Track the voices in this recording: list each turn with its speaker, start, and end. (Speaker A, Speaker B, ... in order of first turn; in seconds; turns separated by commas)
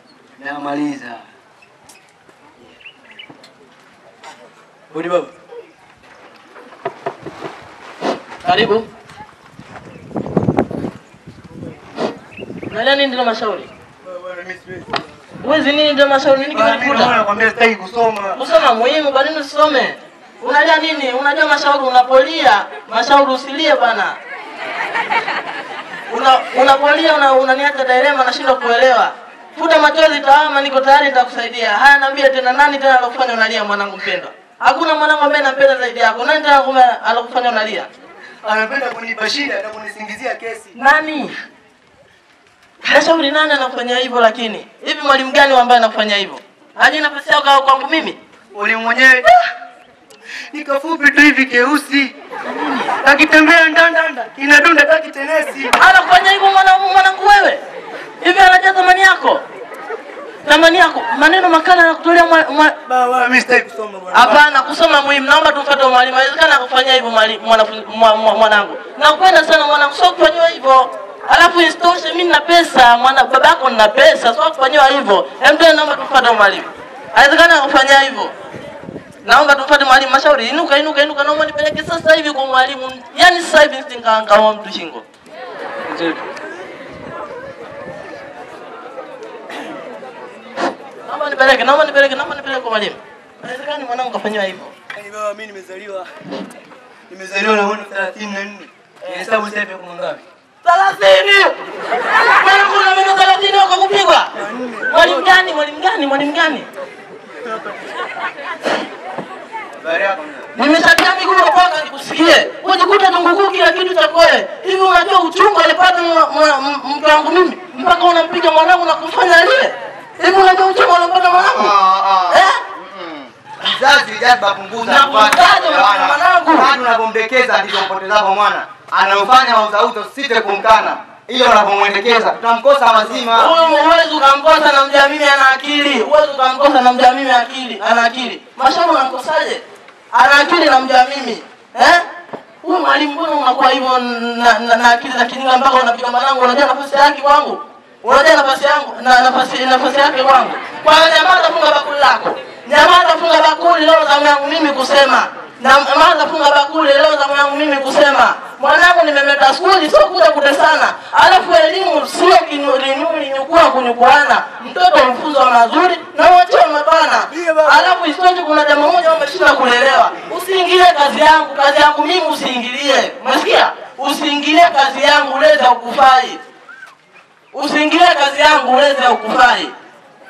Speaker A: 0.4-1.2, Speaker A: 4.9-5.3, Speaker B: 8.4-8.8, Speaker B: 12.7-13.7, Speaker A: 14.0-14.9, Speaker B: 15.4-17.2, Speaker A: 16.4-18.4, Speaker B: 18.3-24.1, Speaker B: 26.1-37.9, Speaker A: 38.4-40.8, Speaker B: 40.7-41.4, Speaker B: 42.8-48.2, Speaker A: 48.5-49.3, Speaker A: 50.5-52.1, Speaker B: 52.4-53.0, Speaker A: 53.0-55.8, Speaker B: 55.8-57.6, Speaker B: 58.2-59.4, Speaker B: 60.4-62.8, Speaker A: 62.9-64.4, Speaker B: 64.1-78.3, Speaker B: 79.2-85.0, Speaker A: 85.8-86.2, Speaker B: 91.0-94.7, Speaker A: 94.9-96.3, Speaker A: 97.1-100.2, Speaker B: 100.6-104.3, Speaker A: 104.4-105.3, Speaker B: 104.9-106.7, Speaker C: 109.8-110.5, Speaker B: 110.5-121.8, Speaker C: 121.3-133.5, Speaker B: 122.3-122.6, Speaker B: 124.8-126.7, Speaker B: 133.3-142.0, Speaker B: 142.6-176.4, Speaker B: 177.5-179.7